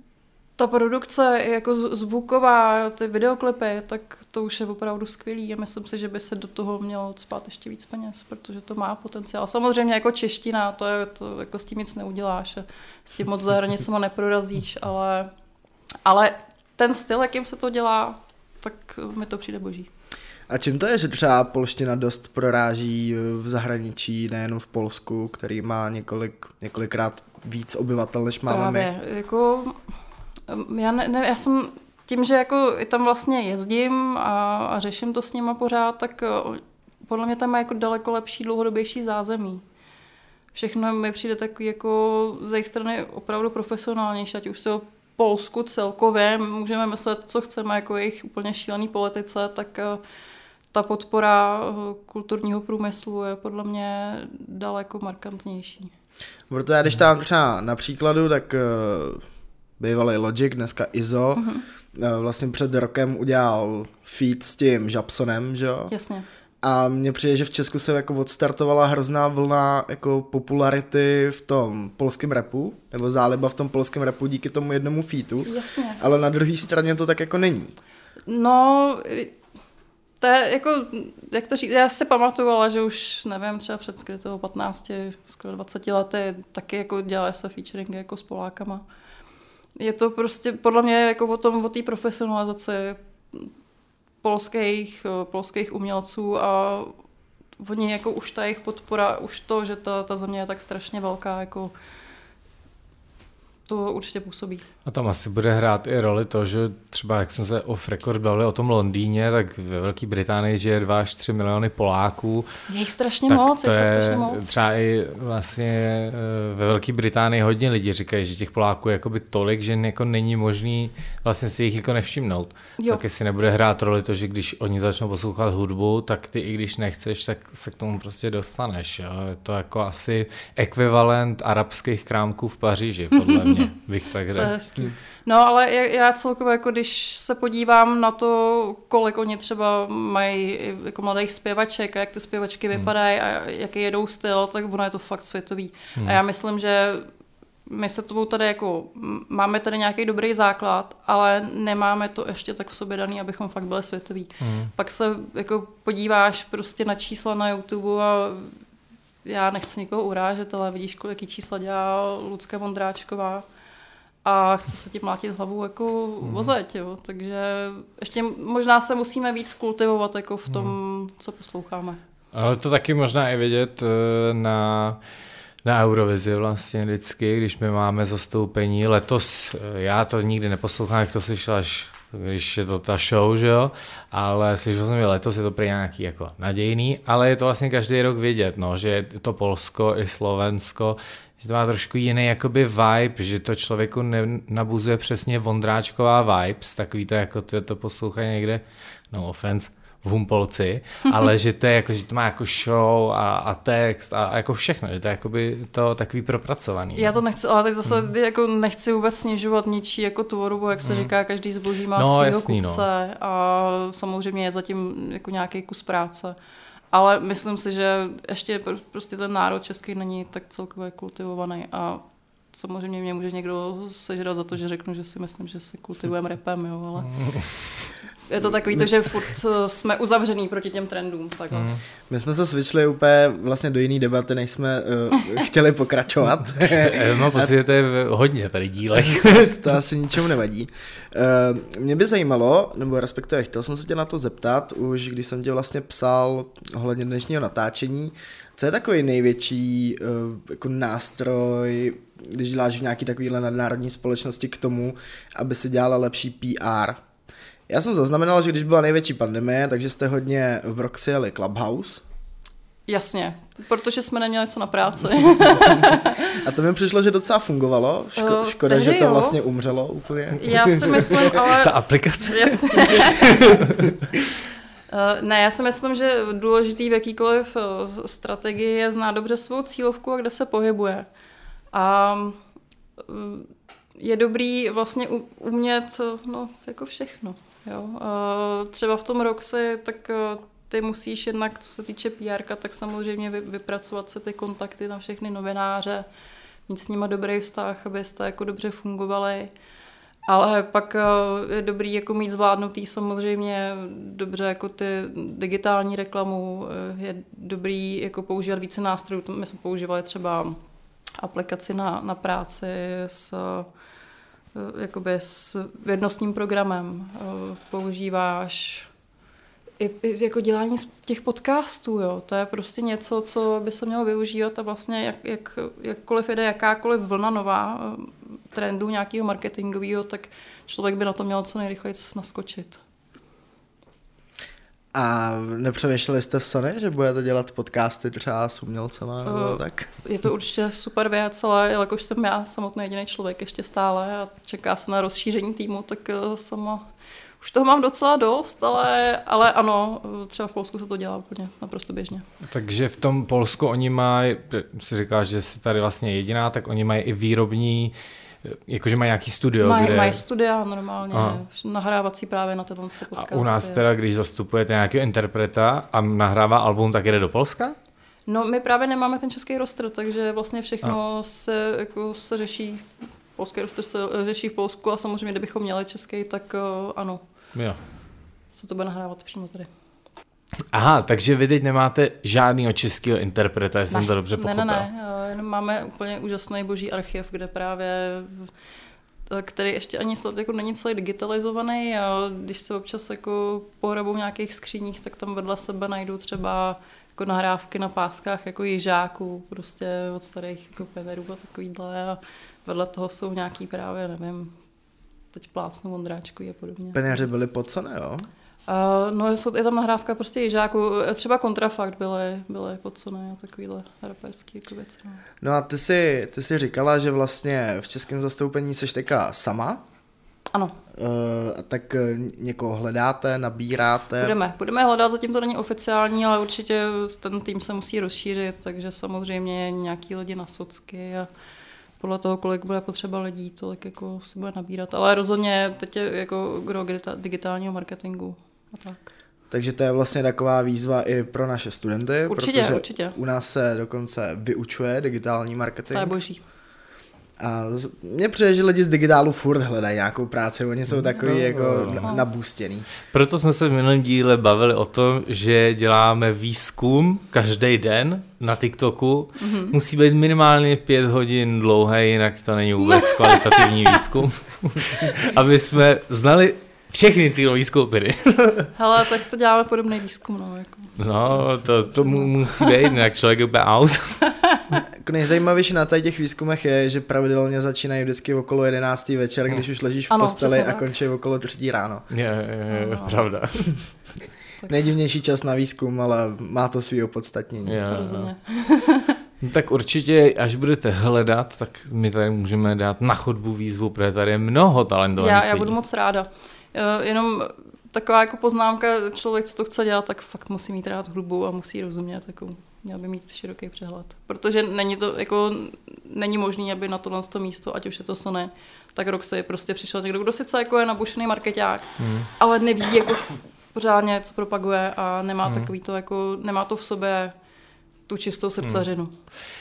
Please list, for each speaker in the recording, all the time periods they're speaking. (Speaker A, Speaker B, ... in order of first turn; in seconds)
Speaker A: 0.6-15.3, 16.0-19.9, 28.4-29.8, 30.5-39.6, 40.5-50.0, 50.7-55.9, 61.4-61.6, 65.9-66.2, 75.4-76.0, 78.3-79.3, 80.2-88.8, 89.8-93.5, 94.2-97.0, 97.6-101.7, 103.7-104.6, 112.7-114.5, 133.3-133.6, 134.3-147.1, 147.7-158.6, 159.2-163.4, 164.2-172.0, 206.9-216.3, 216.9-227.1, 228.2-231.7, 262.9-266.4, 268.2-269.4, 270.3-273.5, 274.9-281.1, 281.7-282.4, 283.0-296.1, 296.7-299.5, 300.3-310.6, 311.2-313.7, 314.5-318.9, 319.8-332.8, 339.2-346.9, 347.4-352.2, 359.6-363.8, 368.3-377.2, 378.5-379.7, 383.9-388.5, 389.3-404.6, 405.3-407.3, 408.7-415.2, 424.2-431.3, 432.0-439.0, 442.3-443.1, 445.9-446.4, 459.4-459.8, 462.8-464.0, 468.7-471.0, 471.9-472.8, 474.2-474.8, 480.1-480.9, 482.7-483.2, 487.9-489.2, 495.2-517.3, 518.1-519.1
Speaker B: 20.5-28.9, 56.5-59.2, 59.8-65.9, 66.6-77.7, 232.1-237.5, 239.1-257.0, 257.7-262.0, 266.2-271.3, 334.9-339.9, 406.9-408.3, 415.4-419.8, 420.9-424.3, 439.5-446.1, 447.4-452.9, 474.9-482.1, 484.7-487.8
Speaker C: 104.8-112.5, 113.3-134.5, 154.4-154.7, 166.2-166.5, 170.5-170.7, 172.3-175.0, 175.6-207.2, 211.9-212.8, 227.1-227.8, 231.5-231.8, 236.6-239.7, 271.3-273.9, 352.4-360.2, 361.1-361.4, 363.1-367.7, 377.5-377.8, 380.7-384.9, 450.9-452.1, 453.1-468.7, 471.0-474.2, 482.1-483.7, 487.6-488.3, 489.4-495.7, 512.0-512.3